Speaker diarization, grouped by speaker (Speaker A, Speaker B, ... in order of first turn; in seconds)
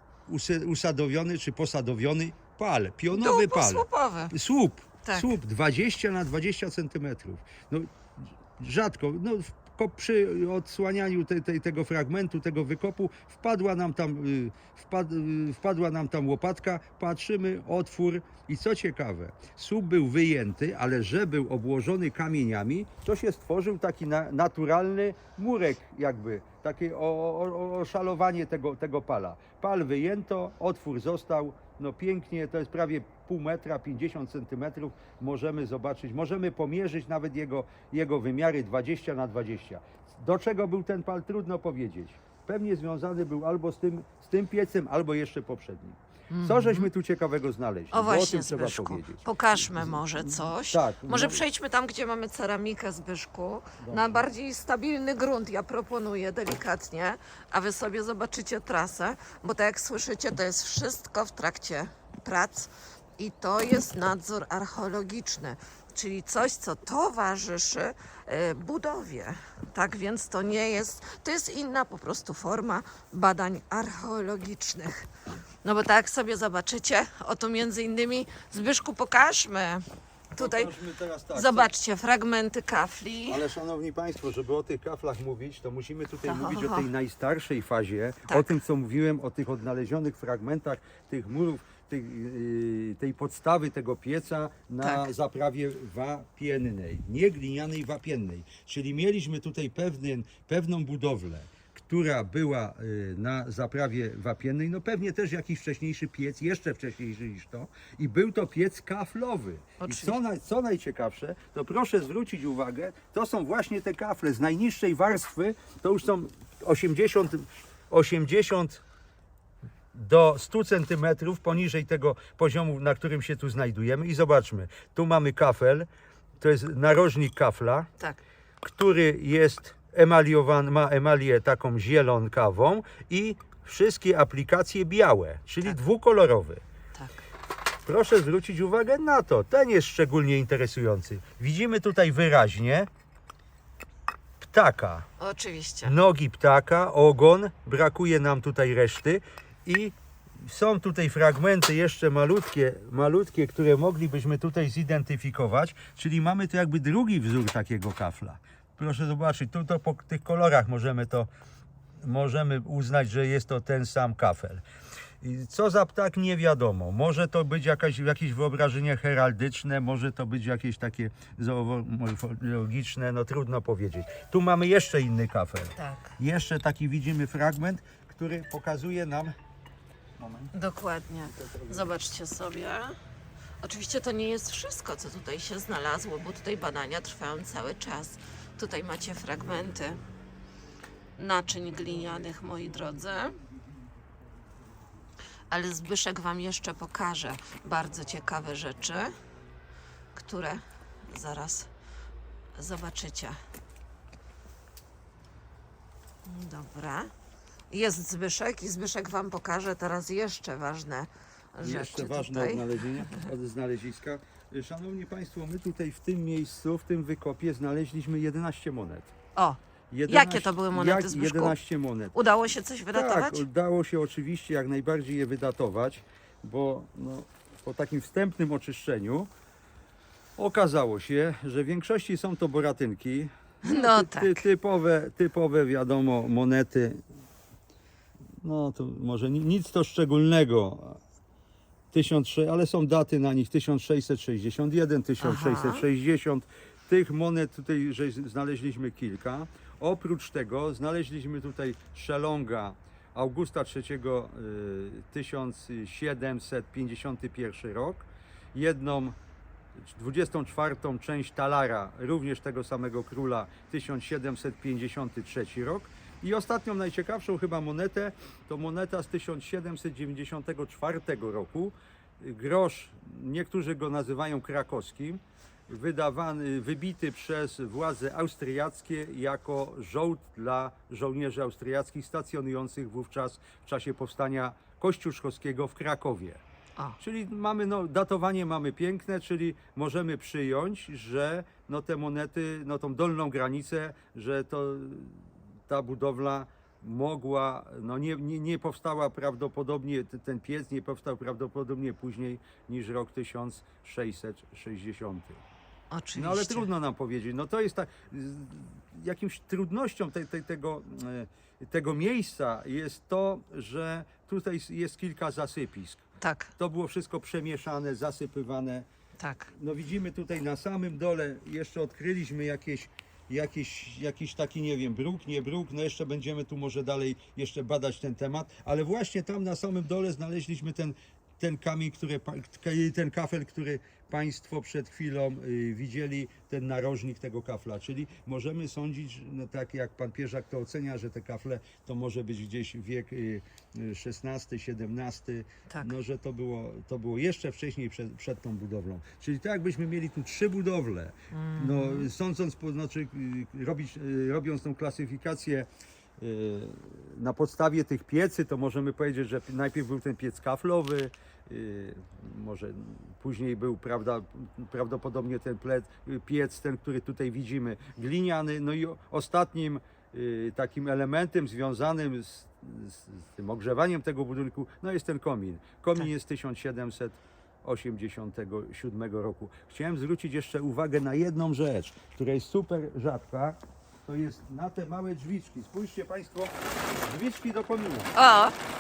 Speaker A: 0.3-51.4, 53.8-54.3, 80.4-81.7, 83.3-118.8, 119.9-125.9, 126.4-127.9, 128.6-136.6, 137.9-142.9, 144.4-145.1, 145.8-161.3, 162.0-164.6, 165.2-179.3, 180.2-180.5, 181.4-181.8, 211.6-219.1, 219.9-222.2, 222.9-229.3, 230.4-237.0, 238.4-241.0, 241.9-259.2, 259.9-286.4, 287.0-305.4, 306.1-318.9, 319.5-355.7, 356.2-386.5, 387.0-388.1
Speaker B: 3.1-4.3, 5.0-5.3, 46.3-46.9, 47.9-75.1, 75.6-80.7, 81.3-83.4, 86.3-86.9, 88.3-88.5, 109.8-110.2, 136.9-137.2, 145.2-145.9, 175.8-176.2, 180.5-183.0, 183.6-190.0, 191.2-193.4, 195.5-199.1, 200.1-201.7, 202.6-203.4, 206.3-207.1, 207.7-213.2, 219.4-221.6, 222.1-223.4, 233.7-234.4, 245.2-245.8, 305.9-306.7, 316.2-316.5, 319.2-319.5, 351.3-352.1, 388.1-388.6